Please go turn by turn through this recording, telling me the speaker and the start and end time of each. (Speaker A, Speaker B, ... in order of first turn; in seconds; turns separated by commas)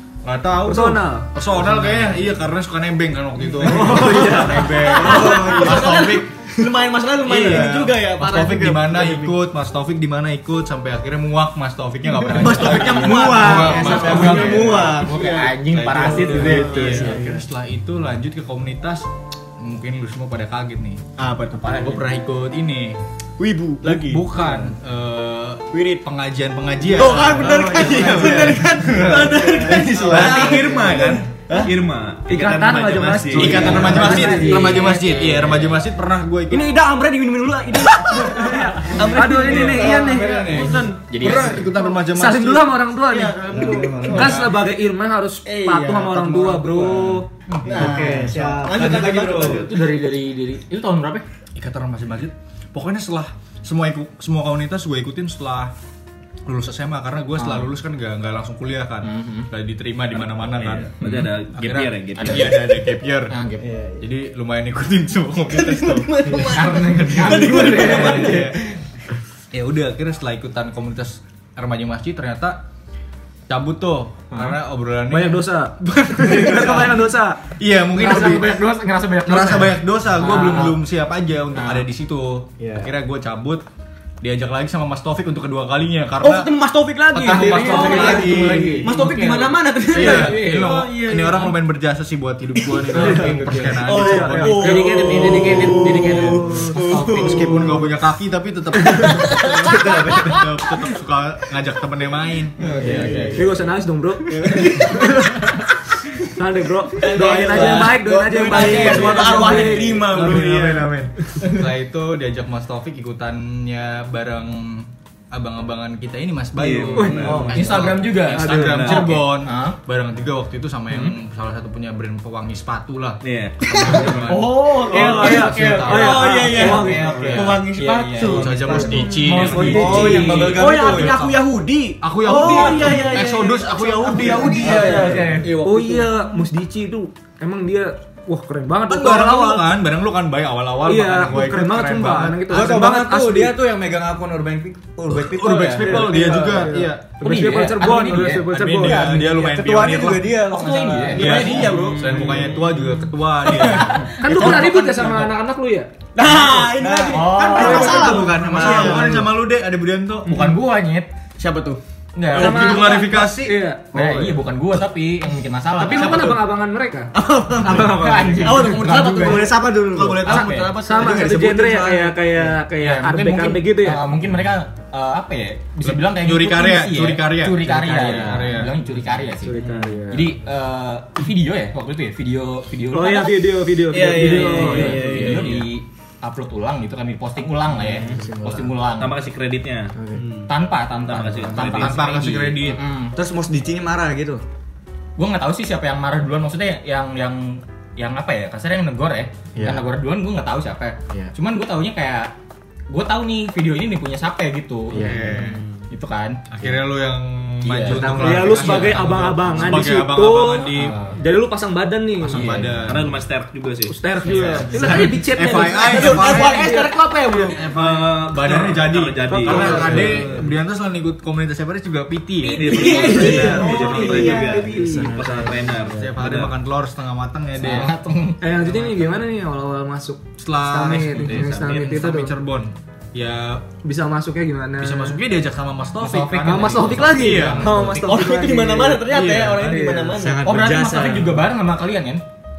Speaker A: 0.2-6.3, Speaker B: 0.6-1.3, Speaker C: 3.6-9.3, Speaker D: 3.6-6.1, Speaker B: 3.7-4.7, Speaker A: 7.2-15.1, Speaker C: 12.2-17.4, Speaker D: 12.3-14.9, Speaker E: 13.9-17.3, Speaker A: 15.6-21.0, Speaker C: 21.2-22.0, Speaker E: 21.6-21.9, Speaker A: 21.8-23.0, Speaker C: 23.4-24.6, Speaker A: 23.8-30.8, Speaker C: 25.7-26.0, Speaker C: 26.8-31.7, Speaker D: 27.2-31.2, Speaker F: 30.1-34.0, Speaker B: 32.3-34.9, Speaker A: 33.3-36.7, Speaker E: 33.4-35.8, Speaker C: 33.5-34.6, Speaker C: 36.5-40.5, Speaker A: 38.0-42.8, Speaker B: 38.2-47.3, Speaker E: 40.7-41.8, Speaker C: 43.1-44.4, Speaker D: 43.5-44.4, Speaker A: 44.0-44.6, Speaker C: 45.4-47.1, Speaker A: 47.1-48.3, Speaker C: 47.6-49.7, Speaker D: 47.6-49.6, Speaker E: 48.9-51.2, Speaker A: 51.5-55.7, Speaker A: 56.5-63.4, Speaker E: 57.4-57.7, Speaker E: 59.0-59.5, Speaker F: 60.6-62.6, Speaker E: 61.0-61.4, Speaker E: 62.2-63.7, Speaker D: 63.6-64.0, Speaker A: 64.0-68.6, Speaker C: 65.5-68.5, Speaker E: 66.2-68.5, Speaker A: 69.5-72.6, Speaker A: 73.5-75.4, Speaker E: 74.3-74.6, Speaker B: 75.1-77.4, Speaker A: 76.2-76.9, Speaker A: 77.6-78.6, Speaker E: 77.9-80.8, Speaker A: 79.2-83.6, Speaker E: 81.5-81.9, Speaker A: 84.2-86.5, Speaker C: 86.2-91.5, Speaker A: 87.1-88.9, Speaker E: 87.1-91.5, Speaker B: 87.5-88.8, Speaker A: 89.9-94.9, Speaker C: 92.9-97.8, Speaker B: 92.9-96.7, Speaker E: 92.9-93.8, Speaker E: 94.4-97.8, Speaker A: 97.0-103.4, Speaker B: 98.8-99.4, Speaker C: 99.0-100.3, Speaker D: 99.8-100.3, Speaker C: 102.7-103.4, Speaker D: 102.8-103.4, Speaker B: 102.8-105.7, Speaker E: 102.8-103.3, Speaker C: 104.4-105.2, Speaker B: 106.2-110.2, Speaker C: 107.0-110.9, Speaker A: 107.1-127.6, Speaker D: 108.5-109.0, Speaker D: 110.2-110.7, Speaker F: 116.5-117.6, Speaker B: 116.9-117.7, Speaker C: 117.0-117.7, Speaker E: 117.3-119.8, Speaker B: 118.3-119.2, Speaker F: 118.6-119.2, Speaker E: 120.9-121.2, Speaker F: 123.2-124.5, Speaker E: 124.3-130.6, Speaker B: 124.3-127.2, Speaker C: 124.5-135.4, Speaker D: 126.7-127.6, Speaker D: 128.2-131.3, Speaker A: 128.3-131.4, Speaker B: 128.7-130.5, Speaker A: 132.0-135.4, Speaker B: 132.3-133.0, Speaker E: 132.4-133.1, Speaker E: 134.0-136.1, Speaker D: 134.2-135.5, Speaker B: 134.4-139.7, Speaker A: 138.9-142.9, Speaker B: 140.8-143.6, Speaker D: 142.5-146.6, Speaker A: 145.1-150.5, Speaker B: 145.8-149.5, Speaker E: 147.2-148.6, Speaker D: 149.2-152.2, Speaker E: 150.3-152.4, Speaker A: 151.1-154.8, Speaker C: 151.2-153.0, Speaker E: 153.5-154.7, Speaker B: 153.9-155.9, Speaker C: 154.3-154.7, Speaker D: 154.4-154.7, Speaker C: 156.1-159.2, Speaker D: 156.2-159.3, Speaker E: 157.1-158.2, Speaker B: 157.5-158.8, Speaker A: 157.9-160.4, Speaker E: 160.2-161.1, Speaker C: 161.4-161.8, Speaker E: 162.2-163.0, Speaker A: 162.3-163.7, Speaker B: 162.3-164.3, Speaker E: 163.9-166.4, Speaker B: 165.7-167.1, Speaker D: 167.1-168.5, Speaker C: 167.5-171.4, Speaker E: 167.6-169.6, Speaker B: 167.7-168.4, Speaker D: 169.0-172.2, Speaker E: 170.3-170.8, Speaker B: 170.7-174.0, Speaker E: 172.7-189.1, Speaker A: 175.8-178.8, Speaker D: 177.7-178.6, Speaker B: 179.4-180.3, Speaker B: 182.9-185.3, Speaker C: 183.9-185.6, Speaker F: 184.3-185.1, Speaker D: 187.7-188.7, Speaker F: 189.0-189.9, Speaker D: 189.9-190.2, Speaker E: 190.4-193.1, Speaker F: 190.9-192.2, Speaker A: 191.6-192.8, Speaker D: 193.1-194.4, Speaker E: 195.2-202.3, Speaker D: 199.6-199.8, Speaker E: 202.9-206.8, Speaker A: 204.9-205.6, Speaker D: 204.9-205.5, Speaker A: 206.5-211.0, Speaker E: 207.6-209.6, Speaker B: 207.9-212.5, Speaker D: 208.0-208.3, Speaker E: 210.7-211.2, Speaker A: 212.2-213.1, Speaker E: 212.3-212.9, Speaker F: 212.8-213.9, Speaker B: 213.9-217.5, Speaker A: 214.2-216.9, Speaker E: 214.3-214.9, Speaker C: 215.8-217.7, Speaker A: 217.4-224.4, Speaker F: 217.7-220.5, Speaker B: 219.3-220.3, Speaker E: 222.4-224.5, Speaker F: 222.5-226.5, Speaker C: 222.7-224.7, Speaker B: 222.7-225.2, Speaker D: 224.5-226.0, Speaker A: 225.9-227.9, Speaker E: 227.6-228.4, Speaker B: 228.4-232.4, Speaker A: 228.5-229.2, Speaker A: 230.4-233.6, Speaker F: 231.2-231.8, Speaker B: 233.8-235.2, Speaker A: 234.8-238.0, Speaker E: 236.0-237.9, Speaker B: 236.4-240.2, Speaker F: 237.2-237.6, Speaker C: 237.9-240.4, Speaker A: 239.2-239.8, Speaker D: 240.1-241.4, Speaker E: 240.4-242.2